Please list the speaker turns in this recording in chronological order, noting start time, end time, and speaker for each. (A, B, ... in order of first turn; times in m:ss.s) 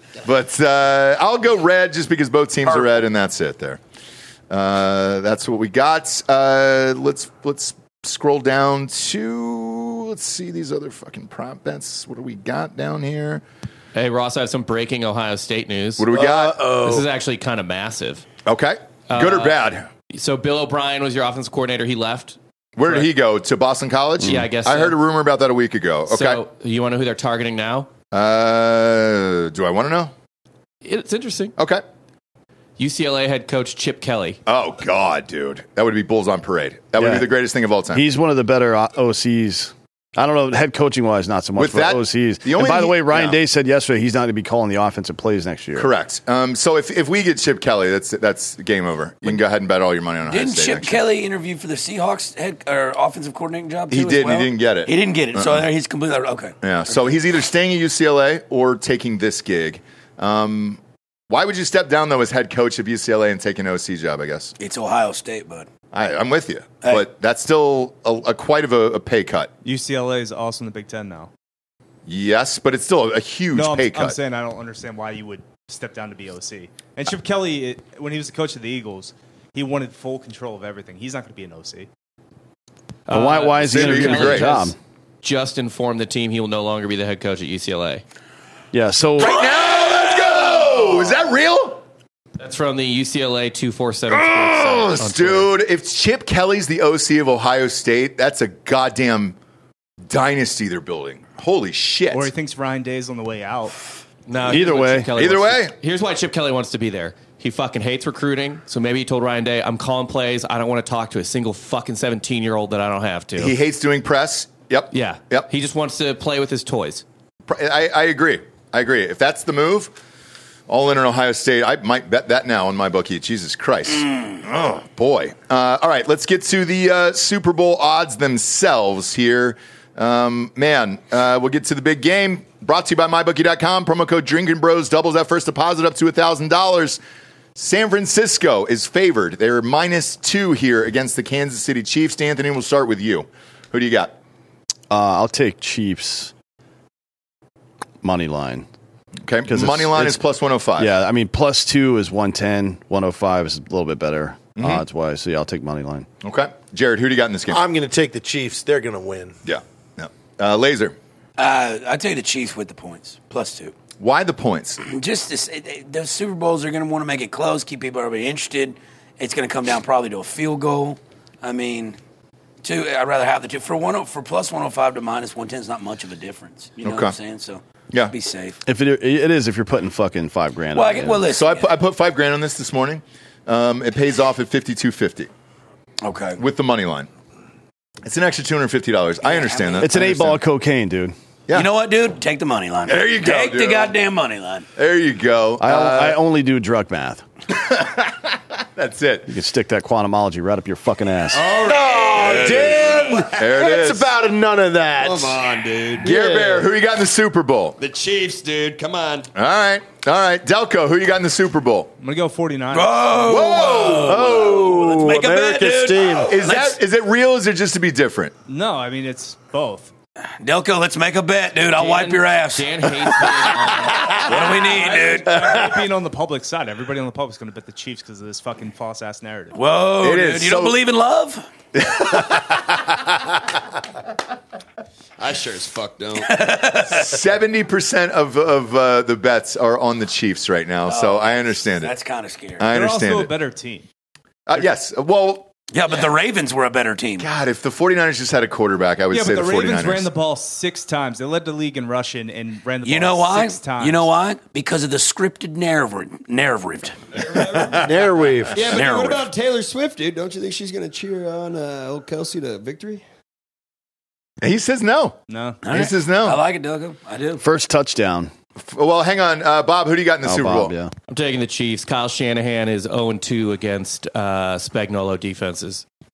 0:00.2-0:03.8 A
0:04.5-0:13.4 A
0:13.9-0:16.1 B
0:16.0-0:16.6 A
0:16.1-0:17.1 C
0:16.7-0:18.2 B
0:18.4-0:19.9 A
0:19.1-0:19.6 B
0:20.1-0:23.1 B
0:22.8-0:26.4 A
0:24.2-0:25.0 B
0:26.1-0:27.9 B
0:28.1-0:30.1 A
0:30.8-0:31.6 B
0:31.6-0:31.8 A
0:32.8-0:34.4 B
0:34.5-0:38.0 A
0:37.0-0:37.3 D
0:37.9-0:45.9 D
0:41.6-0:43.4 A
0:45.8-0:51.0 A
0:50.3-0:56.6 E
0:53.9-0:55.7 A
0:56.6-1:04.5 A
1:04.6-1:05.7 E
1:05.9-1:09.5 A
1:09.6-1:11.3 F
1:12.1-1:14.2 A
1:13.5-1:21.9 F
1:23.1-1:28.0 B
1:23.1-1:24.8 D
1:23.6-1:24.6 A
1:28.7-1:29.4 D
1:29.2-1:31.8 A
1:32.4-1:35.5 B
1:34.1-1:39.4 A
1:40.1-1:42.3 A
1:42.1-1:43.8 F
1:44.3-1:53.6 B
1:44.5-1:45.1 D
1:45.2-1:45.7 A
1:53.4-1:55.5 A
1:54.9-1:57.0 B
1:57.5-1:59.9 A
2:00.7-2:17.0 A
2:17.6-2:24.2 A
2:24.9-2:26.3 D
2:28.0-2:28.7 D
2:29.2-2:30.9 A
2:29.5-2:30.2 D
2:30.8-2:36.1 D
2:34.6-2:34.8 A
2:36.2-2:37.6 A
2:37.5-2:39.4 C
2:39.4-2:41.0 A
2:41.4-2:43.7 E
2:44.0-2:44.8 A
2:44.8-2:52.0 E
2:52.6-2:58.6 E
2:56.8-2:57.2 A
2:58.6-3:01.2 D
3:00.7-3:01.7 E
3:01.3-3:05.3 A
3:06.0-3:06.4 E
3:06.4-3:07.1 A
3:08.0-3:10.4 A
3:09.2-3:09.9 E
3:09.8-3:11.1 D
3:11.5-3:14.7 E
3:12.9-3:13.9 A
3:14.8-3:16.2 A
3:15.6-3:17.2 D
3:17.5-3:19.3 A
3:19.3-3:21.5 D
3:21.3-3:23.2 G
3:21.6-3:25.5 C
3:22.3-3:24.1 A
3:25.0-3:26.1 G
3:26.0-3:26.7 C
3:26.0-3:27.8 A
3:27.8-3:29.3 G
3:29.4-3:31.9 A
3:32.0-3:33.5 F
3:32.7-3:36.8 E
3:33.2-3:34.9 A
3:33.7-3:36.4 C
3:36.3-3:38.3 A
3:38.5-3:39.9 F
3:40.4-3:45.7 E
3:41.7-3:44.2 B
3:44.2-3:49.6 F
3:49.5-3:51.5 E
3:50.0-3:50.8 A
3:51.8-3:52.8 A
3:55.2-3:56.4 G
3:56.2-3:57.2 E
3:56.9-4:01.9 A
4:00.9-4:02.7 E
4:02.6-4:03.3 A
4:02.7-4:03.9 F
4:04.5-4:05.5 A
4:05.7-4:07.3 E
4:07.2-4:10.1 A
4:09.1-4:14.1 F
4:12.8-4:17.0 E
4:17.1-4:17.9 G
4:17.5-4:17.8 A
4:17.8-4:18.8 C
4:18.5-4:23.0 G
4:18.7-4:19.3 E
4:24.4-4:25.2 A
4:25.3-4:25.6 F
4:25.6-4:27.4 E
4:25.7-4:26.4 A
4:27.4-4:28.3 D
4:28.6-4:30.7 A
4:30.2-4:30.9 D
4:31.1-4:35.8 B